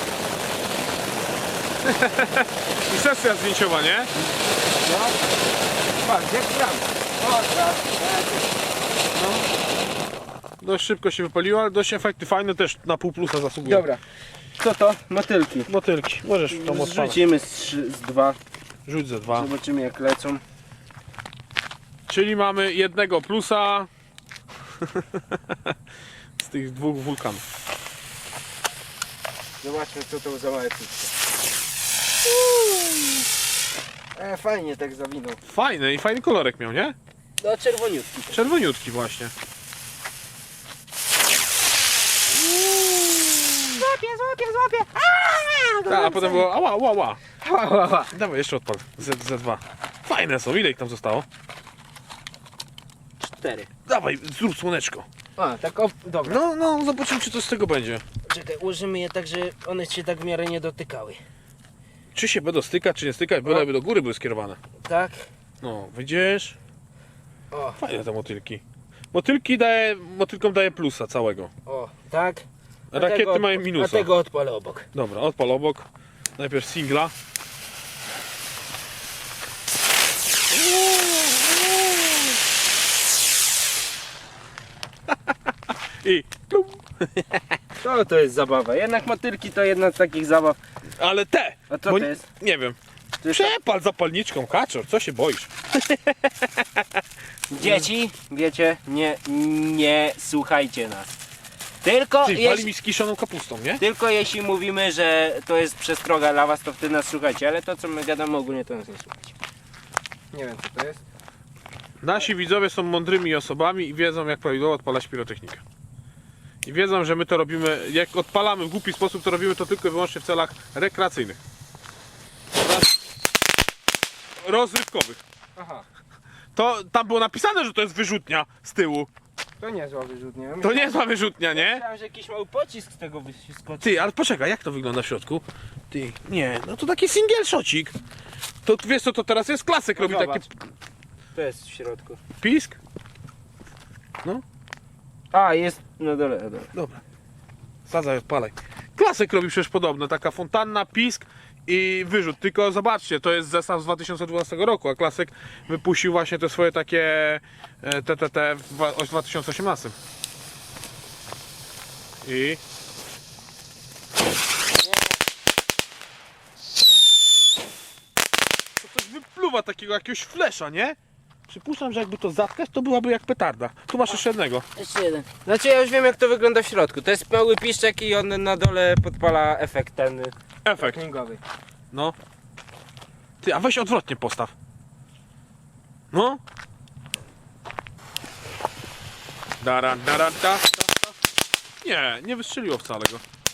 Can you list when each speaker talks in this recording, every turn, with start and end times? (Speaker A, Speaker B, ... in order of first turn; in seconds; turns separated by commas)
Speaker A: 1.8-4.1, Speaker B: 4.8-5.2, Speaker B: 6.0-8.5, Speaker A: 9.1-9.5, Speaker A: 10.6-13.8, Speaker B: 13.6-14.0, Speaker B: 14.6-15.7, Speaker A: 15.7-17.2, Speaker B: 16.5-18.4, Speaker A: 18.9-19.5, Speaker B: 19.3-20.4, Speaker A: 22.1-23.9, Speaker A: 24.8-25.7, Speaker A: 26.4-27.4, Speaker B: 29.6-31.1, Speaker B: 32.2-33.2, Speaker B: 34.1-35.4, Speaker A: 35.5-36.9, Speaker B: 37.4-38.5, Speaker A: 38.3-39.3, Speaker A: 42.4-43.8, Speaker B: 43.7-46.5, Speaker A: 45.8-47.2, Speaker B: 47.4-48.1, Speaker A: 48.1-51.2, Speaker B: 53.2-53.7, Speaker A: 53.9-55.0, Speaker B: 55.4-56.4, Speaker A: 56.2-58.0, Speaker B: 58.3-61.2, Speaker A: 62.1-64.6, Speaker B: 64.8-65.3, Speaker A: 65.6-66.5, Speaker B: 67.5-67.8, Speaker A: 67.8-71.5, Speaker B: 71.7-74.9, Speaker A: 72.9-74.1, Speaker A: 74.9-77.1, Speaker A: 80.5-82.1, Speaker A: 86.0-87.6, Speaker B: 87.8-90.6, Speaker A: 91.0-92.8, Speaker B: 91.7-92.2, Speaker B: 93.2-93.5, Speaker A: 93.3-97.0, Speaker B: 97.5-101.2, Speaker A: 97.6-97.8, Speaker B: 101.8-102.7, Speaker A: 102.2-103.8, Speaker B: 103.8-109.3, Speaker B: 110.3-111.0, Speaker A: 112.0-115.6, Speaker A: 116.6-121.4, Speaker A: 122.6-122.9, Speaker A: 124.4-125.2, Speaker B: 125.5-125.8, Speaker A: 126.5-129.1, Speaker B: 129.6-134.0, Speaker A: 130.6-131.8, Speaker A: 133.8-137.9, Speaker A: 138.6-140.5, Speaker B: 139.9-140.5, Speaker B: 141.3-142.2, Speaker A: 142.4-142.8, Speaker B: 145.3-146.7, Speaker A: 146.7-147.0, Speaker A: 147.9-159.9, Speaker A: 162.2-162.6, Speaker A: 168.8-171.0, Speaker A: 171.5-174.6, Speaker B: 174.8-181.4, Speaker A: 180.6-181.0, Speaker A: 183.4-184.5, Speaker A: 186.1-186.4, Speaker A: 189.6-190.8, Speaker A: 191.8-193.2